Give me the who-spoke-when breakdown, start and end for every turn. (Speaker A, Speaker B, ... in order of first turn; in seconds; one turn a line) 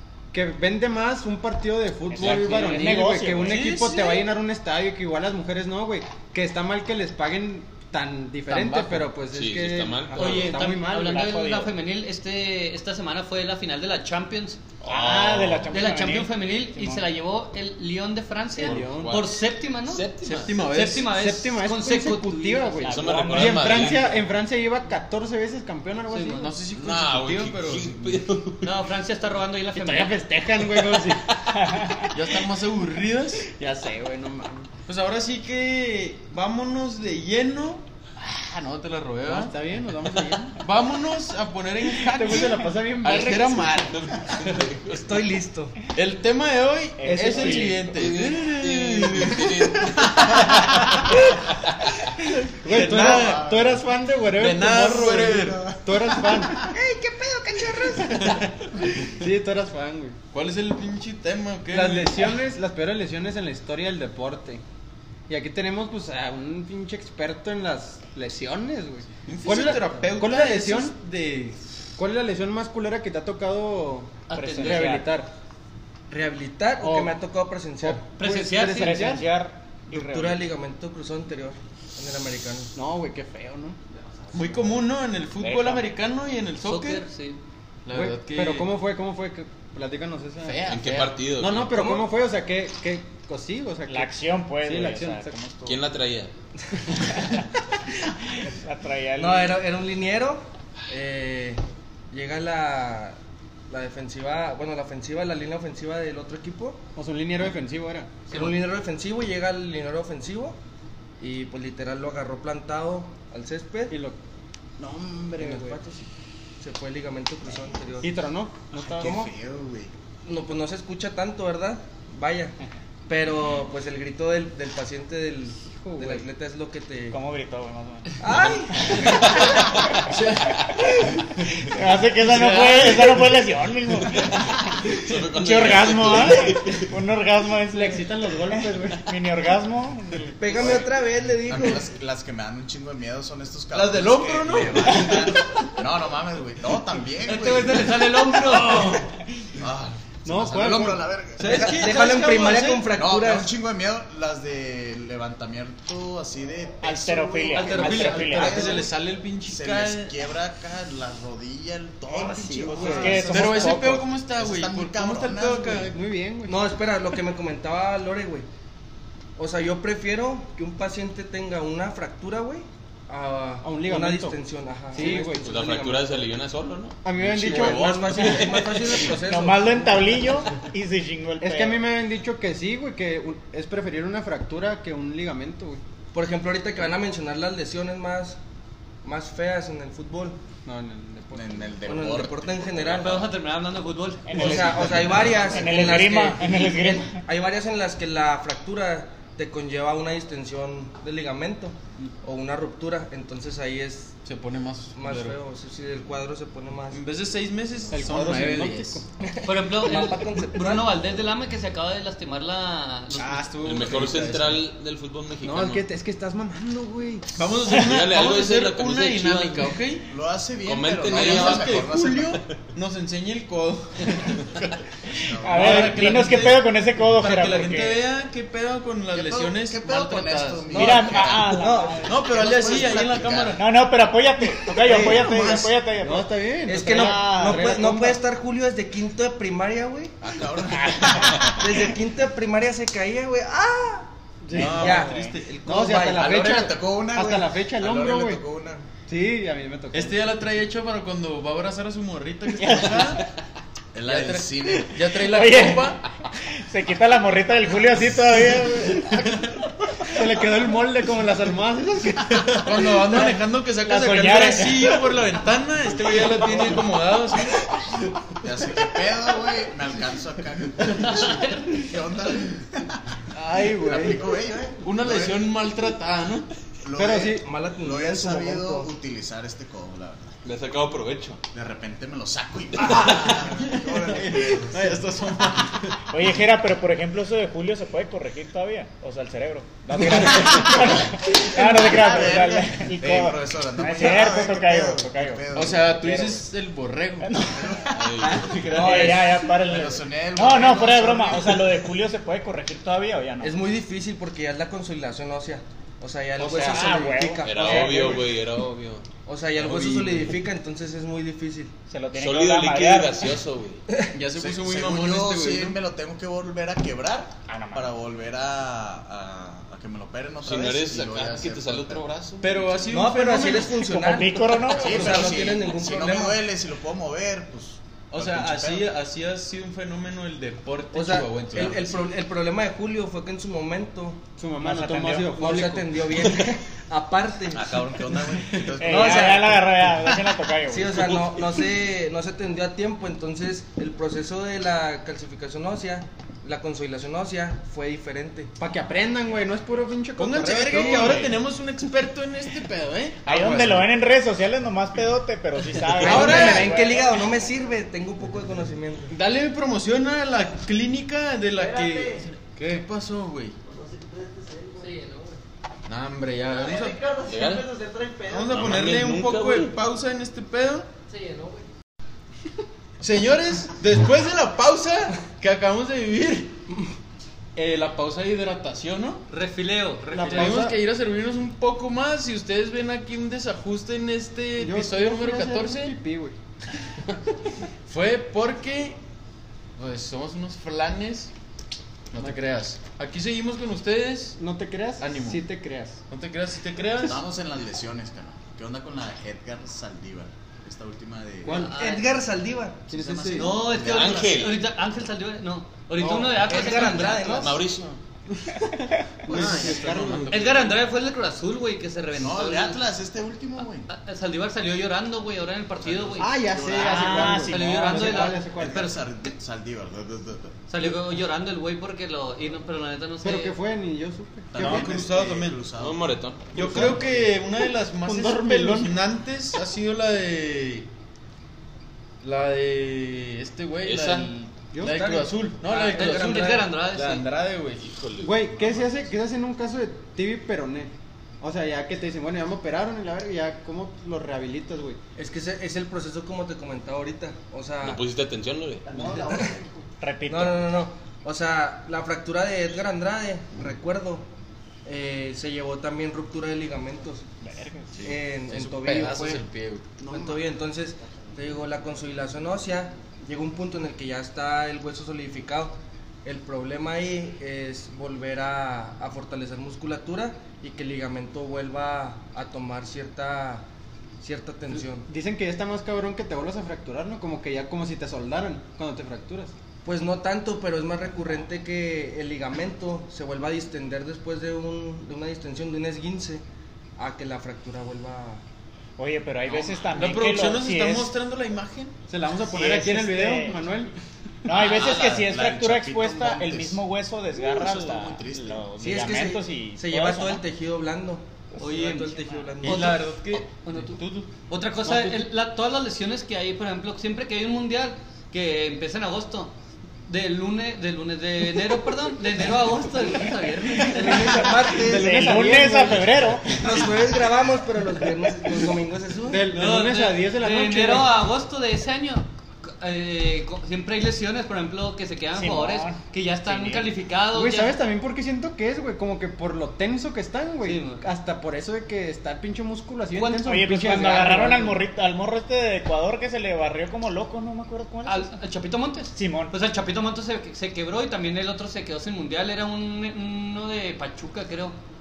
Speaker A: 0.3-11.2
Speaker B: 2.1-3.8
Speaker C: 3.4-4.2
Speaker D: 8.5-10.5
Speaker E: 10.1-14.6
Speaker B: 10.8-11.7
Speaker D: 14.8-15.8
Speaker B: 14.8-17.1
Speaker E: 15.7-22.9
Speaker A: 18.6-19.2
Speaker D: 18.6-20.6
Speaker C: 20.2-21.1
Speaker A: 21.1-26.5
Speaker B: 22.9-24.0
Speaker D: 22.9-24.2
Speaker E: 26.1-26.5
Speaker C: 26.4-28.2
Speaker D: 26.7-28.7
Speaker E: 28.6-30.2
Speaker A: 29.7-31.2
Speaker B: 31.5-32.1
Speaker C: 32.1-33.5
Speaker A: 33.5-34.7
Speaker C: 34.9-39.5
Speaker A: 39.2-40.6
Speaker C: 40.6-44.8
Speaker A: 41.9-43.9
Speaker D: 43.9-45.0
Speaker F: 44.9-45.8
Speaker C: 45.9-51.2
Speaker B: 47.0-47.8
Speaker A: 47.0-47.8
Speaker D: 47.9-51.1
Speaker C: 52.6-53.5
Speaker A: 52.6-60.2
Speaker G: 52.8-53.8
Speaker C: 54.3-55.7
Speaker G: 54.9-56.7
Speaker F: 57.0-58.0
Speaker C: 58.0-58.6
Speaker C: 60.3-62.2
Speaker A: 61.7-64.6
Speaker A: 65.3-70.9
Speaker C: 69.2-71.6
Speaker A: 72.0-75.3
Speaker E: 74.3-75.0
Speaker B: 74.3-75.1
Speaker F: 76.1-78.0
Speaker A: 76.8-77.2
Speaker A: 77.8-79.2
Speaker E: 78.2-79.0
Speaker B: 78.6-80.5
Speaker F: 79.9-82.7
Speaker A: 82.7-83.8
Speaker C: 84.3-87.0
Speaker B: 85.3-85.9
Speaker E: 86.6-87.4
Speaker C: 87.8-88.7
Speaker A: 87.9-90.6
Speaker C: 90.4-91.1
Speaker D: 90.7-91.8
Speaker A: 91.4-95.3
Speaker F: 91.8-92.0
Speaker B: 93.9-95.8
Speaker D: 95.6-96.3
Speaker B: 98.3-99.6
Speaker F: 99.2-103.2
Speaker F: 103.7-106.8
Speaker A: 107.0-108.2
Speaker F: 108.3-110.6
Speaker F: 111.2-113.9
Speaker A: 113.9-114.2
Speaker A: 114.8-115.8
Speaker F: 115.4-116.0
Speaker F: 116.6-118.1
Speaker A: 118.0-119.3
Speaker G: 118.7-119.9
Speaker F: 119.0-119.3
Speaker F: 120.2-122.5
Speaker F: 123.1-127.2
Speaker A: 125.6-126.2
Speaker B: 127.1-128.2
Speaker F: 128.2-129.6
Speaker B: 129.9-140.7
Speaker C: 130.0-131.6
Speaker C: 132.2-133.2
Speaker D: 134.8-136.9
Speaker A: 137.7-139.0
Speaker F: 140.4-141.9
Speaker G: 141.4-148.2
Speaker C: 143.7-145.4
Speaker E: 147.2-149.0
Speaker F: 148.4-148.8
Speaker C: 148.7-149.0
Speaker G: 149.6-151.8
Speaker A: 150.2-151.0
Speaker C: 151.4-152.9
Speaker F: 151.4-153.5
Speaker G: 152.9-165.9
Speaker B: 156.8-158.7
Speaker E: 157.5-158.5
Speaker F: 157.6-158.8
Speaker C: 158.4-160.2
Speaker A: 162.1-163.5
Speaker B: 162.7-164.1
Speaker F: 162.7-163.1
Speaker C: 163.3-165.9
Speaker A: 165.9-166.6
Speaker F: 166.5-168.4
Speaker F: 169.3-176.3
Speaker A: 173.6-174.4
Speaker A: 174.9-175.5
Speaker D: 175.0-179.2
Speaker A: 177.0-178.6
Speaker F: 177.4-180.4
Speaker B: 178.9-181.8
Speaker A: 181.4-185.8
Speaker F: 186.1-188.4
Speaker F: 189.0-190.4
Speaker A: 190.6-191.7
Speaker G: 191.3-193.2
Speaker F: 191.8-193.3
Speaker E: 192.9-194.6
Speaker B: 194.3-197.2
Speaker F: 194.3-204.1
Speaker C: 204.2-205.4
Speaker F: 204.9-207.0
Speaker C: 206.9-209.0
Speaker A: 207.9-209.0
Speaker F: 209.2-210.9
Speaker E: 209.4-213.4
Speaker A: 213.2-214.1
Speaker C: 213.2-214.6
Speaker D: 213.6-215.8
Speaker A: 215.4-217.4
Speaker C: 217.3-220.1
Speaker D: 217.7-219.8
Speaker G: 220.1-222.4
Speaker D: 220.7-221.9
Speaker C: 221.1-224.6
Speaker G: 225.2-225.9
Speaker B: 225.3-228.0
Speaker C: 225.6-231.1
Speaker G: 229.1-233.6
Speaker B: 230.7-232.2
Speaker F: 230.8-232.1
Speaker C: 232.1-233.6
Speaker B: 233.5-237.8
Speaker F: 234.8-235.7
Speaker A: 234.9-238.2
Speaker F: 236.7-240.2
Speaker G: 240.2-241.5
Speaker B: 240.7-241.7
Speaker F: 241.4-244.1
Speaker A: 244.4-245.0
Speaker C: 244.5-245.4
Speaker B: 244.6-245.3
Speaker F: 244.6-246.4
Speaker A: 245.6-248.4
Speaker G: 246.1-248.8
Speaker A: 249.1-250.2
Speaker C: 249.9-253.2
Speaker B: 252.5-253.3
Speaker G: 253.9-255.0
Speaker C: 254.0-256.0
Speaker B: 255.1-256.0
Speaker B: 256.6-259.3
Speaker C: 259.0-259.6
Speaker A: 260.1-263.3
Speaker C: 262.5-268.0
Speaker B: 263.7-265.0
Speaker G: 268.4-273.0
Speaker E: 271.1-271.6
Speaker A: 273.3-274.2
Speaker G: 273.6-275.5
Speaker C: 274.8-276.5
Speaker G: 276.8-280.3
Speaker A: 277.0-277.4
Speaker F: 277.3-278.9
Speaker D: 280.4-281.4
Speaker G: 281.5-285.4
Speaker C: 282.8-286.0
Speaker B: 286.1-296.4
Speaker G: 291.3-296.0
Speaker C: 295.5-297.4
Speaker B: 297.2-298.0
Speaker G: 297.5-298.0
Speaker D: 297.9-298.8
Speaker F: 298.2-299.6
Speaker B: 298.5-303.6
Speaker G: 299.6-301.9
Speaker F: 303.4-308.3
Speaker A: 306.4-306.8
Speaker B: 306.4-308.2
Speaker D: 307.4-309.0
Speaker F: 309.2-311.7
Speaker C: 309.6-310.4
Speaker B: 311.9-313.3
Speaker D: 312.1-313.8
Speaker C: 314.1-315.8
Speaker G: 314.3-322.0
Speaker B: 317.4-317.9
Speaker D: 320.4-322.7
Speaker C: 322.4-323.8
Speaker F: 322.9-326.4
Speaker B: 323.8-325.3
Speaker G: 324.7-328.9
Speaker C: 328.1-332.0
Speaker F: 330.9-334.2
Speaker A: 334.4-336.1
Speaker B: 334.6-335.3
Speaker F: 335.3-340.1
Speaker G: 337.5-339.4
Speaker B: 338.8-341.2
Speaker F: 340.7-348.5
Speaker A: 348.6-351.3
Speaker C: 350.2-353.9
Speaker F: 350.6-351.3
Speaker B: 353.2-357.2
Speaker C: 356.0-356.7
Speaker F: 356.0-359.1
Speaker C: 359.1-363.6
Speaker A: 363.8-364.8
Speaker E: 364.8-365.4
Speaker C: 365.9-367.2
Speaker A: 366.9-368.4
Speaker D: 367.1-367.8
Speaker C: 368.2-370.9
Speaker D: 368.5-369.7
Speaker E: 371.1-371.6
Speaker C: 373.0-376.6
Speaker C: 377.5-379.2
Speaker E: 379.3-380.6
Speaker A: 380.1-380.8
Speaker C: 380.3-385.9
Speaker A: 384.6-386.3
Speaker C: 387.9-389.0
Speaker C: 389.8-391.3
Speaker C: 392.1-394.4
Speaker A: 394.4-396.0
Speaker C: 395.0-395.4
Speaker C: 396.1-397.2
Speaker G: 397.0-401.7
Speaker A: 401.4-401.7
Speaker E: 401.5-402.1
Speaker F: 401.5-403.5
Speaker A: 402.9-403.5
Speaker G: 402.9-404.5
Speaker E: 403.3-407.5
Speaker D: 403.7-404.6
Speaker F: 406.0-407.6
Speaker D: 407.0-408.0
Speaker A: 409.3-410.4
Speaker C: 409.3-410.6
Speaker G: 409.3-410.2
Speaker E: 410.3-412.8
Speaker G: 412.1-413.9
Speaker E: 413.6-419.0
Speaker G: 416.0-417.1
Speaker A: 416.2-418.9
Speaker B: 416.7-418.1
Speaker G: 418.1-420.6
Speaker E: 420.7-423.5
Speaker A: 423.2-425.0
Speaker G: 424.5-426.1
Speaker C: 424.5-425.6
Speaker D: 425.8-426.5
Speaker C: 426.5-430.9
Speaker A: 426.5-427.1
Speaker A: 428.0-429.0
Speaker C: 432.2-437.8
Speaker D: 433.8-434.3
Speaker A: 434.7-435.2
Speaker F: 434.8-436.7
Speaker E: 435.7-437.2
Speaker D: 437.8-438.9
Speaker A: 438.2-445.0
Speaker F: 445.2-448.0
Speaker D: 447.8-449.0
Speaker A: 448.9-449.6
Speaker F: 449.0-449.5
Speaker G: 449.3-449.6
Speaker B: 450.0-450.8
Speaker F: 450.3-454.3
Speaker F: 454.8-457.2
Speaker B: 457.4-458.0
Speaker C: 458.0-460.0
Speaker F: 458.0-459.4
Speaker F: 460.0-473.6
Speaker A: 460.1-460.4
Speaker F: 474.2-475.1
Speaker A: 475.1-479.5
Speaker F: 479.8-486.4
Speaker F: 487.0-488.4
Speaker B: 489.0-491.1
Speaker C: 489.9-491.9
Speaker A: 492.1-493.9
Speaker B: 492.5-493.6
Speaker B: 494.4-500.4
Speaker G: 494.6-496.8
Speaker G: 497.3-498.7
Speaker F: 498.8-503.0
Speaker E: 501.6-509.5
Speaker B: 501.7-502.5
Speaker C: 502.6-504.3
Speaker C: 504.8-505.2
Speaker E: 510.1-514.5
Speaker B: 513.8-516.7
Speaker F: 513.9-519.5
Speaker A: 514.8-516.0
Speaker A: 519.3-521.1
Speaker E: 519.5-527.8
Speaker B: 525.3-526.9
Speaker A: 527.3-534.8
Speaker E: 530.6-531.0
Speaker E: 533.1-533.4
Speaker B: 533.3-538.3
Speaker E: 534.1-534.4
Speaker E: 538.0-544.8
Speaker B: 539.1-539.5